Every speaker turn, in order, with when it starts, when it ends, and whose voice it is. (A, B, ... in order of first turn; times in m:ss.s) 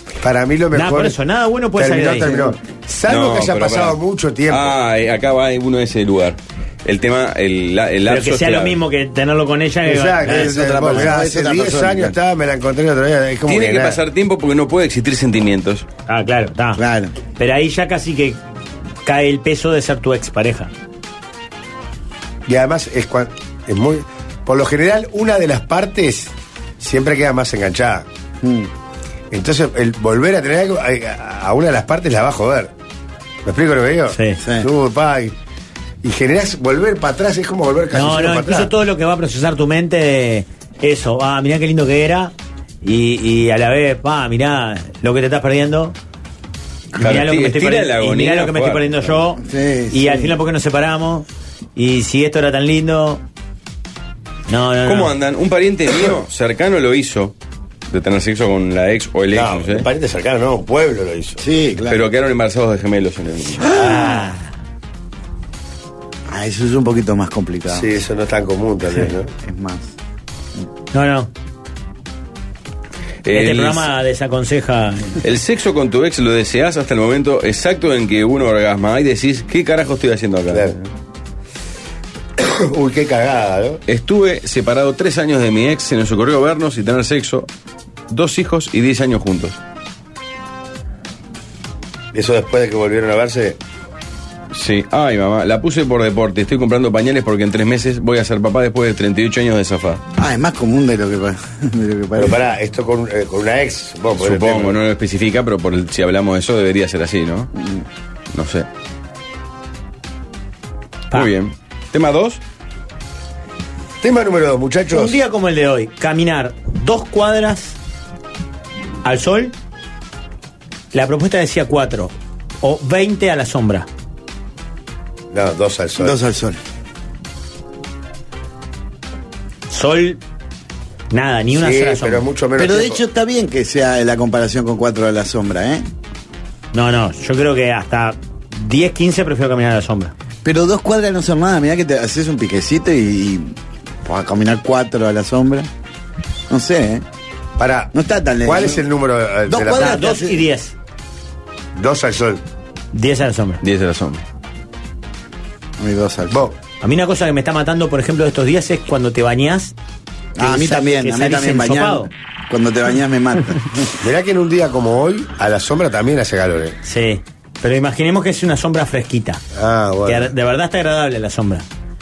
0:00.2-0:01.2 A
0:00.7-0:02.6 B
0:01.7-0:04.8 A
0:03.1-0:04.0 C
0:04.5-0:08.8 C
0:08.0-0:11.1 B
0:09.8-0:14.0 A
0:10.2-0:12.2 D
0:13.5-0:15.8 C
0:16.1-0:16.8 B
0:16.7-0:17.1 D
0:17.4-0:18.4 B
0:19.0-0:20.7 B
0:22.5-0:28.1 A
0:28.4-0:28.7 D
0:29.3-0:32.7 A
0:33.4-0:35.3 A
0:34.1-0:34.4 B
0:34.4-0:34.7 D
0:36.0-0:38.7 A
0:37.9-0:45.9 B
0:46.9-0:53.2 B
0:47.0-0:49.1 C
0:49.4-0:50.4 D
0:54.5-0:55.1 B
0:54.8-0:57.3 C
0:57.9-0:59.9 C
0:59.3-1:01.4 A
1:01.4-1:02.0 D
1:01.9-1:03.6 C
1:03.6-1:04.2 D
1:03.6-1:04.4 B
1:06.3-1:07.9 D
1:07.7-1:09.3 A
1:09.4-1:09.9 D
1:10.9-1:11.3 B
1:13.2-1:13.9 C
1:13.3-1:15.2 B
1:15.2-1:20.9 C
1:22.4-1:23.8 A
1:23.9-1:27.5 C
1:28.1-1:29.6 C
1:32.1-1:33.6 A
1:34.5-1:40.0 C
1:40.2-1:42.4 D
1:42.2-1:44.8 A
1:44.2-1:47.5 C
1:47.6-1:47.8 D
1:48.3-1:48.7 C
1:51.1-1:52.4 C
1:54.0-1:55.2 A
1:54.9-1:57.8 B
1:59.0-1:59.5 B
2:00.9-2:03.9 B
2:05.3-2:06.2 A
2:06.0-2:06.6 D
2:09.7-2:10.2 B
2:11.1-2:12.2 B
2:11.6-2:13.0 A
2:12.5-2:15.8 D
2:16.7-2:20.1 B
2:20.4-2:25.7 D
2:26.5-2:27.0 D
2:27.6-2:30.0 A
2:27.9-2:28.8 D
2:29.4-2:30.4 D
2:29.7-2:30.7 B
2:31.7-2:32.4 A
2:32.9-2:33.6 B
2:33.6-2:34.2 C
2:35.8-2:36.5 D
2:36.3-2:36.6 A
2:36.8-2:39.7 B
2:40.4-2:44.0 D
2:40.4-2:42.1 B
2:44.0-2:46.7 A
2:46.8-2:49.4 B
2:49.5-2:50.3 A
2:50.0-2:51.6 B